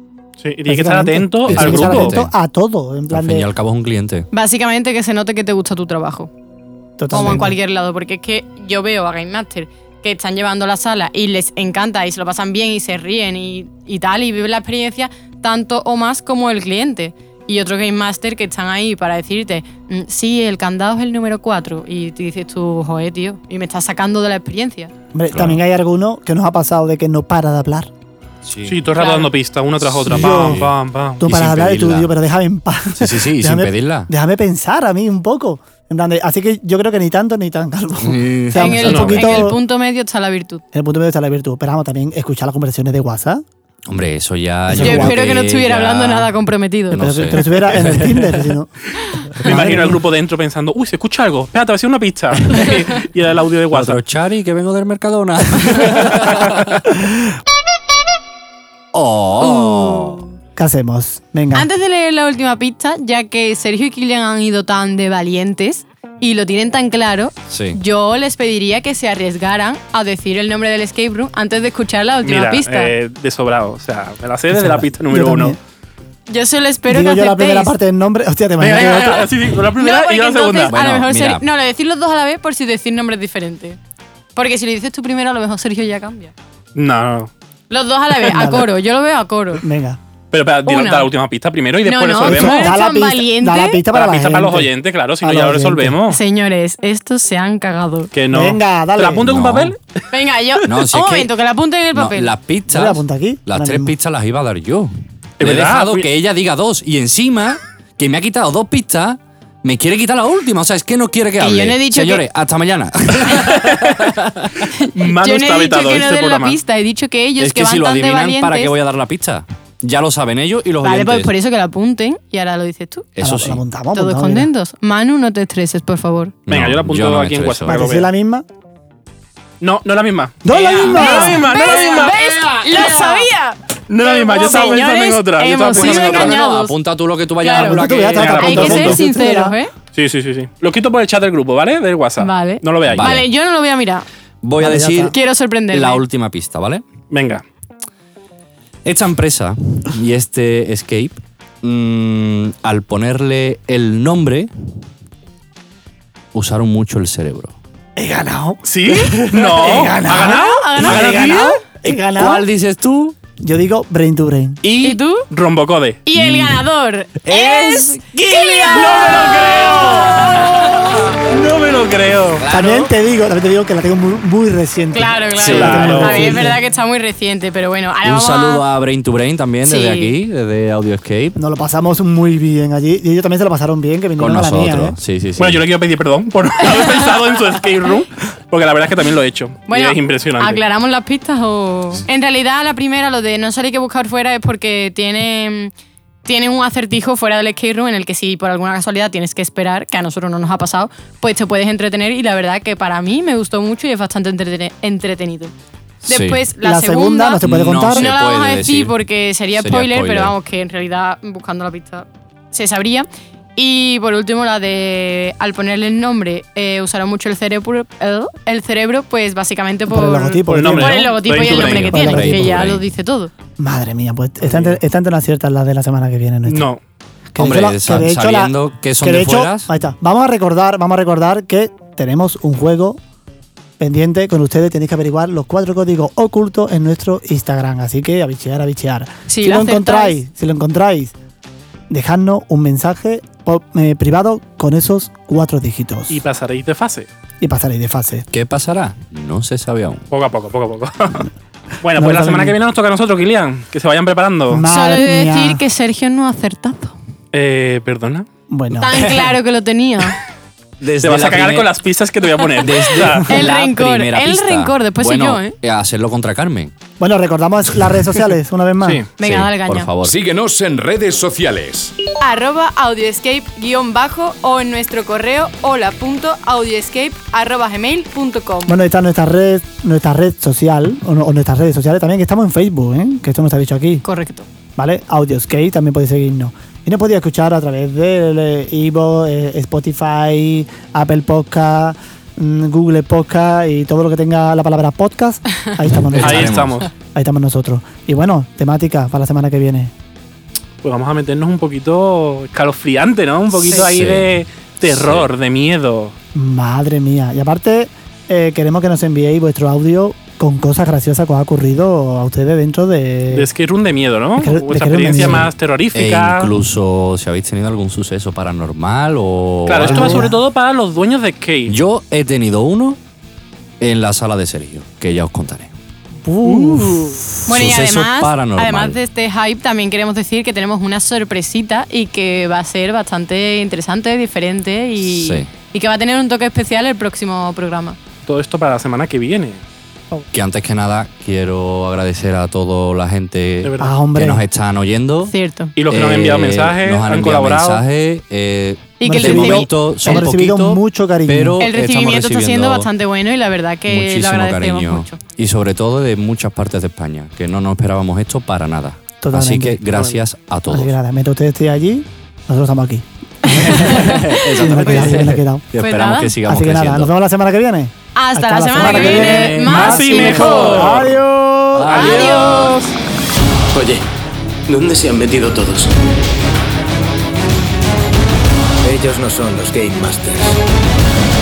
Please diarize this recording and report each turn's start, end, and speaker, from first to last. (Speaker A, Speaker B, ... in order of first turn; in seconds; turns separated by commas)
Speaker A: 0.4-2.2, Speaker B: 0.7-3.5, Speaker C: 1.5-2.3, Speaker C: 3.1-4.3, Speaker D: 4.3-6.3, Speaker B: 7.0-7.6, Speaker D: 7.1-24.9, Speaker B: 25.1-27.9, Speaker C: 25.3-25.6, Speaker C: 28.4-28.8, Speaker A: 28.6-31.2, Speaker D: 29.0-29.3, Speaker C: 30.0-32.1, Speaker B: 30.1-30.6, Speaker B: 31.2-39.6, Speaker C: 33.0-34.1, Speaker C: 38.0-39.3, Speaker D: 38.5-40.6, Speaker A: 38.9-39.2, Speaker B: 40.7-43.4, Speaker C: 43.9-46.3, Speaker B: 44.7-45.3, Speaker D: 44.8-47.0, Speaker C: 46.9-48.4, Speaker B: 47.0-50.0, Speaker A: 49.4-54.0, Speaker C: 53.7-57.0, Speaker C: 58.9-60.2, Speaker D: 59.4-60.4, Speaker B: 60.6-61.7, Speaker D: 61.5-72.9, Speaker C: 67.5-67.8, Speaker A: 72.2-75.6, Speaker B: 74.5-75.6, Speaker D: 76.3-77.7, Speaker B: 76.9-79.3, Speaker A: 78.6-80.8, Speaker D: 79.8-83.8, Speaker C: 80.7-81.4, Speaker D: 84.4-86.3, Speaker A: 86.8-87.3, Speaker D: 87.7-89.6, Speaker B: 88.2-88.7, Speaker B: 89.6-90.0, Speaker A: 90.3-92.7, Speaker D: 90.7-91.1, Speaker D: 91.8-93.8, Speaker B: 92.2-96.0, Speaker A: 93.9-96.2, Speaker D: 96.1-98.1, Speaker A: 98.1-99.8, Speaker B: 98.3-99.4, Speaker C: 99.2-99.7, Speaker D: 100.1-102.3, Speaker C: 100.6-101.3, Speaker C: 101.9-114.5, Speaker B: 102.7-104.0, Speaker A: 105.4-106.1, Speaker D: 111.4-112.2, Speaker A: 113.4-114.0, Speaker D: 114.7-118.7, Speaker A: 114.9-116.6, Speaker C: 117.4-121.3, Speaker D: 120.8-123.1, Speaker C: 123.2-123.6, Speaker B: 123.2-124.5, Speaker D: 123.9-126.3, Speaker C: 126.5-127.8, Speaker A: 126.5-128.1, Speaker B: 127.7-128.5, Speaker A: 129.6-133.2, Speaker B: 130.4-131.5, Speaker D: 130.8-136.8, Speaker A: 133.9-136.4, Speaker C: 135.7-138.8, Speaker D: 137.4-139.7, Speaker B: 137.5-139.6, Speaker A: 138.1-139.0, Speaker A: 139.9-143.2, Speaker D: 142.2-144.1, Speaker C: 142.8-143.3, Speaker C: 144.4-146.8, Speaker B: 144.6-145.2, Speaker D: 145.1-146.0, Speaker A: 147.1-147.4, Speaker C: 148.8-154.5, Speaker C: 156.3-157.6, Speaker B: 158.0-162.5, Speaker A: 158.6-161.6, Speaker D: 160.1-161.5, Speaker C: 162.1-163.2, Speaker B: 163.4-164.6, Speaker A: 164.6-166.0, Speaker D: 164.8-165.2, Speaker D: 166.1-169.4, Speaker C: 166.2-166.6, Speaker C: 167.3-167.6, Speaker A: 168.1-172.4, Speaker C: 168.9-170.2, Speaker D: 170.0-170.4, Speaker C: 172.4-172.9, Speaker B: 172.5-176.6, Speaker D: 174.9-178.6, Speaker C: 175.4-176.3, Speaker A: 175.4-176.3, Speaker C: 178.0-181.4, Speaker D: 179.6-180.1, Speaker B: 181.4-185.0, Speaker C: 184.2-185.6, Speaker A: 185.4-190.6, Speaker D: 189.7-195.7, Speaker D: 196.2-205.5, Speaker C: 206.0-206.4, Speaker D: 206.1-223.3, Speaker B: 206.6-208.1, Speaker C: 207.4-209.0, Speaker C: 209.6-210.3, Speaker B: 219.9-222.7, Speaker A: 220.5-222.1, Speaker C: 221.4-222.8, Speaker B: 223.6-226.7, Speaker A: 226.5-226.8, Speaker B: 227.3-233.0, Speaker C: 227.4-229.7, Speaker B: 233.8-241.2, Speaker D: 239.3-240.2, Speaker B: 241.9-246.2, Speaker A: 246.1-247.1, Speaker B: 247.4-248.3, Speaker C: 248.3-250.1, Speaker A: 250.1-251.3, Speaker A: 251.8-254.7, Speaker B: 252.0-252.6, Speaker B: 254.5-255.6, Speaker D: 254.7-257.0, Speaker A: 257.3-258.3, Speaker B: 258.5-259.2, Speaker D: 258.7-260.2, Speaker C: 260.8-261.7, Speaker A: 261.0-263.5, Speaker C: 262.5-266.7, Speaker D: 263.3-265.6, Speaker B: 267.0-269.1, Speaker A: 268.8-269.1, Speaker D: 269.2-269.9, Speaker C: 269.2-270.1, Speaker E: 270.0-271.9, Speaker D: 272.2-278.8, Speaker B: 278.7-284.0, Speaker D: 284.0-284.5, Speaker B: 284.8-299.9, Speaker C: 296.1-296.8, Speaker A: 296.2-296.9, Speaker A: 300.8-306.1, Speaker C: 303.7-305.3, Speaker B: 306.3-313.5, Speaker A: 313.3-316.5, Speaker B: 314.4-315.5, Speaker C: 315.2-320.3, Speaker A: 319.7-321.7, Speaker B: 319.8-320.4, Speaker C: 321.7-323.0, Speaker C: 323.8-325.7, Speaker B: 326.2-327.3, Speaker A: 326.5-327.2, Speaker D: 327.5-338.0, Speaker C: 327.5-329.0, Speaker C: 335.0-335.5, Speaker A: 338.3-339.6, Speaker C: 340.3-345.3, Speaker A: 343.6-343.9, Speaker B: 343.8-344.4, Speaker D: 345.3-345.7, Speaker A: 345.8-347.8, Speaker C: 345.9-352.9, Speaker D: 349.0-350.3, Speaker B: 349.0-351.6, Speaker D: 351.6-355.2, Speaker C: 353.9-360.9, Speaker B: 359.2-359.9, Speaker B: 360.7-365.7, Speaker D: 363.4-364.4, Speaker C: 363.4-367.1, Speaker D: 365.8-366.3, Speaker B: 366.5-372.1, Speaker D: 368.1-370.9, Speaker C: 368.8-370.5, Speaker A: 369.2-371.2, Speaker C: 371.8-372.4, Speaker D: 371.9-372.9, Speaker A: 372.0-372.7, Speaker F: 373.7-374.1, Speaker F: 374.7-375.9, Speaker F: 378.8-380.6